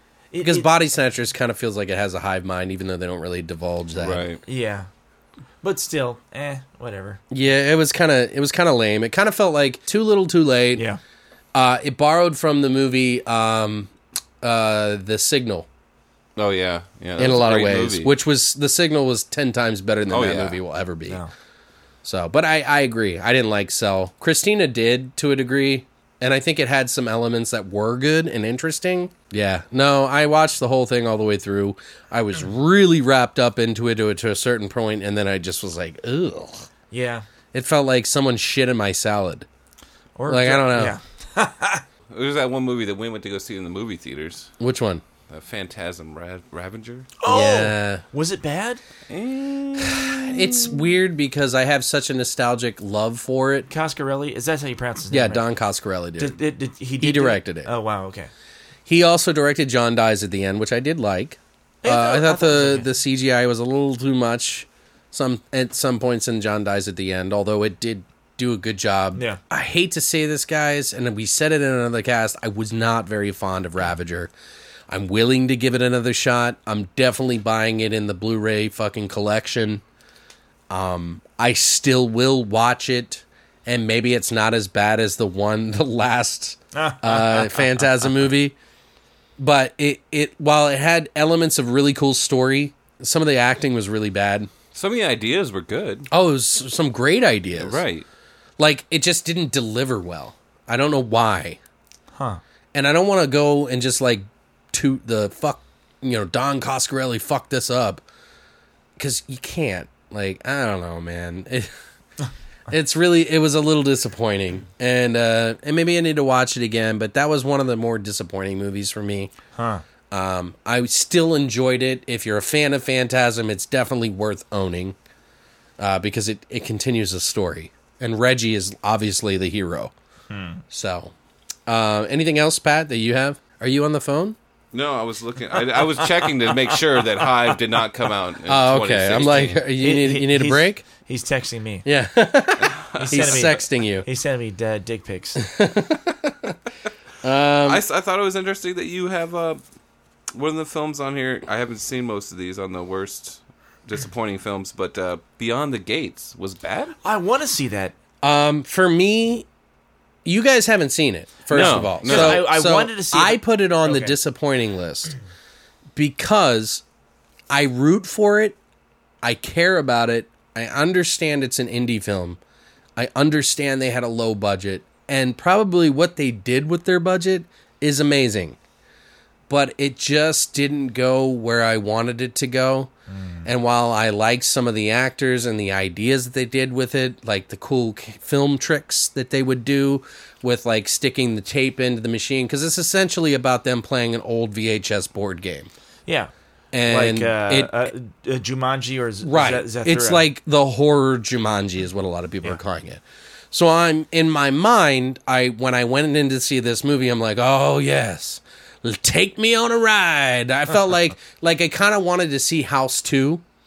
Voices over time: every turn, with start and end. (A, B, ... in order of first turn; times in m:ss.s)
0:00.3-0:00.7 A
0:00.4-0:04.2 B
0:04.0-0:04.4 C
0:04.4-0:04.9 A
0:05.6-0:07.2 A
0:07.3-0:10.8 B
0:10.8-0:11.0 A
0:11.5-0:13.9 B
0:14.4-0:15.7 B
0:16.4-0:18.1 C
0:17.2-0:21.2 B
0:20.1-0:20.6 C
0:22.0-0:36.7 B
0:36.9-0:37.2 A
0:37.5-0:39.5 B
0:40.2-0:41.8 A
0:40.3-0:41.0 B
0:42.1-0:44.5 C
0:44.6-0:45.0 B
0:45.3-0:47.1 C
0:47.2-0:48.8 A
0:47.3-0:48.0 B
0:49.1-0:50.8 C
0:49.8-0:53.7 B
0:53.7-0:55.5 A
0:55.1-0:56.4 B
0:56.2-0:58.3 A
0:57.0-0:57.7 B
0:58.9-1:14.3 B
1:01.8-1:02.9 A
1:09.2-1:09.4 A
1:14.9-1:19.8 B
1:20.7-1:28.6 B
1:26.7-1:27.9 A
1:29.4-1:34.5 B
1:34.7-1:36.1 C
1:36.1-1:37.8 B
1:37.6-1:38.1 C
1:38.6-1:41.6 B
1:42.2-1:42.4 A
1:42.7-1:48.0 B
1:49.0-1:51.7 B
1:52.7-1:59.3 B
1:59.6-1:59.8 A
2:00.1-2:05.0 B
2:05.8-2:09.9 B
2:10.3-2:10.6 A
2:10.7-2:11.1 B
2:11.7-2:14.4 B
2:14.7-2:19.6 C
2:15.8-2:17.3 A
2:18.5-2:20.8 B
2:19.8-2:21.9 A
2:21.8-2:24.1 B
2:22.6-2:23.5 C
2:23.0-2:25.4 A
2:25.4-2:26.6 B
2:27.2-2:27.8 B
2:27.6-2:29.6 C
2:30.3-2:37.0 C
2:37.0-2:38.0 A
2:38.2-2:39.5 B
2:40.2-2:45.2 B
2:41.5-2:42.5 C
2:41.5-2:44.2 A
2:46.0-2:46.8 B
2:47.5-2:48.6 B
2:49.2-2:52.4 B
2:53.0-2:58.6 B
2:59.5-3:02.9 B
3:03.1-3:03.5 A
3:03.4-3:15.7 B
3:16.1-3:16.3 A
3:16.7-3:17.9 B
3:16.9-3:20.2 A
3:19.2-3:33.4 B